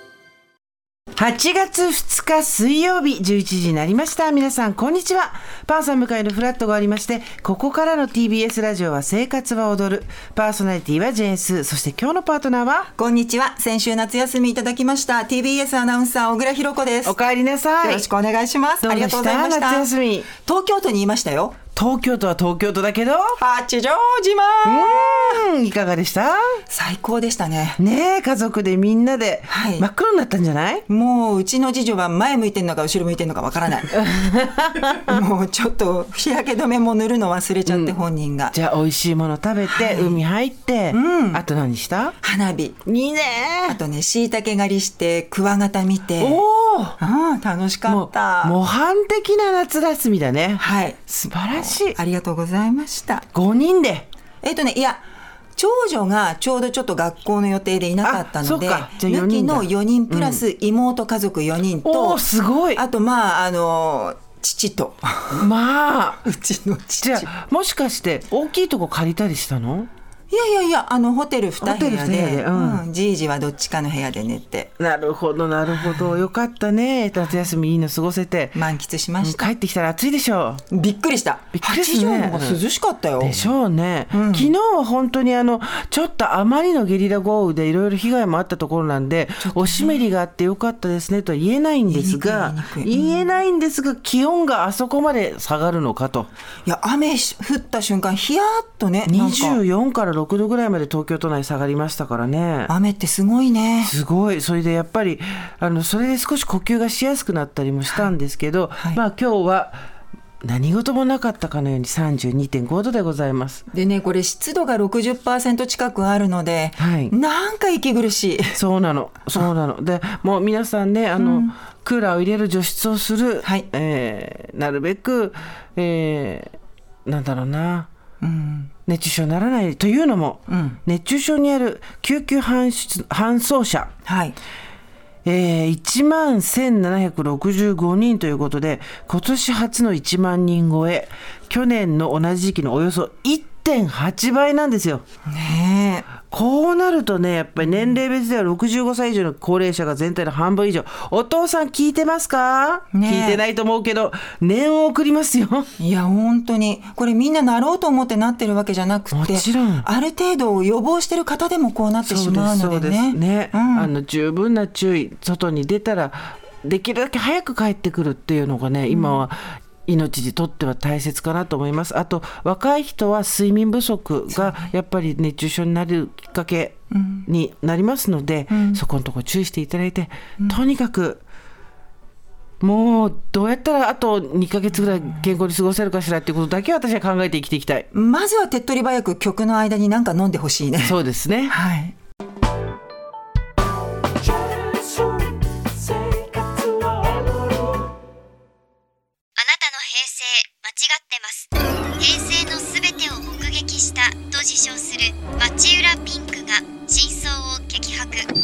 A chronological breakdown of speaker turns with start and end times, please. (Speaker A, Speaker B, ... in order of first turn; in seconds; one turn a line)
Speaker A: 1.1-12.9
Speaker B: 12.9-17.1
Speaker A: 17.0-18.1
Speaker B: 17.8-21.6
Speaker A: 18.8-20.3
Speaker A: 21.7-23.4
Speaker B: 23.4-25.4
Speaker A: 24.6-26.6
Speaker B: 26.7-27.8
Speaker A: 27.8-30.8
Speaker B: 29.5-29.9
Speaker B: 30.9-34.0
Speaker A: 33.9-35.2
Speaker B: 35.0-38.5
Speaker A: 37.6-38.0
Speaker A: 38.5-42.1
Speaker B: 39.7-40.2
Speaker B: 40.9-41.4
Speaker B: 42.2-42.8
Speaker A: 42.9-43.8
Speaker B: 43.7-46.4
Speaker A: 46.2-47.0
Speaker B: 47.0-48.5
Speaker A: 47.9-52.0
Speaker B: 50.6-53.2
Speaker A: 53.3-54.1
Speaker B: 54.4-62.2
Speaker A: 58.0-60.4
Speaker A: 61.8-62.8
Speaker B: 62.7-65.5
Speaker A: 65.3-66.2
Speaker B: 66.2-67.3
Speaker A: 67.0-69.9
Speaker B: 70.3-74.7
Speaker A: 71.6-72.8
Speaker A: 74.8-78.6
Speaker B: 75.7-76.2
Speaker B: 77.2-77.5
Speaker B: 78.5-79.5
Speaker A: 79.2-80.6
Speaker B: 80.7-83.5
Speaker A: 81.5-82.6
Speaker A: 83.2-96.3
Speaker B: 84.1-84.5
Speaker B: 89.4-90.0
Speaker B: 91.9-93.3
Speaker B: 96.6-99.6
Speaker A: 99.1-102.7
Speaker B: 102.7-103.9
Speaker A: 103.8-109.8
Speaker A: 110.4-113.6
Speaker B: 113.7-118.6
Speaker A: 116.8-117.1
Speaker A: 118.5-127.9
Speaker B: 121.2-121.5
Speaker B: 128.2-128.7
Speaker A: 128.9-133.9
Speaker B: 130.5-130.8
Speaker B: 134.0-134.4
Speaker A: 135.2-145.0
Speaker B: 145.3-146.1
Speaker A: 146.3-155.7
Speaker B: 147.6-148.0
Speaker B: 152.9-153.4
Speaker B: 155.8-163.9
Speaker A: 159.1-159.9
Speaker A: 162.1-181.2
Speaker B: 168.9-169.2
Speaker B: 174.3-174.7
Speaker B: 176.9-177.2
Speaker B: 178.5-178.8
Speaker A: 182.6-187.9
Speaker B: 187.9-191.9
Speaker A: 190.8-191.5
Speaker C: 199.3-208.3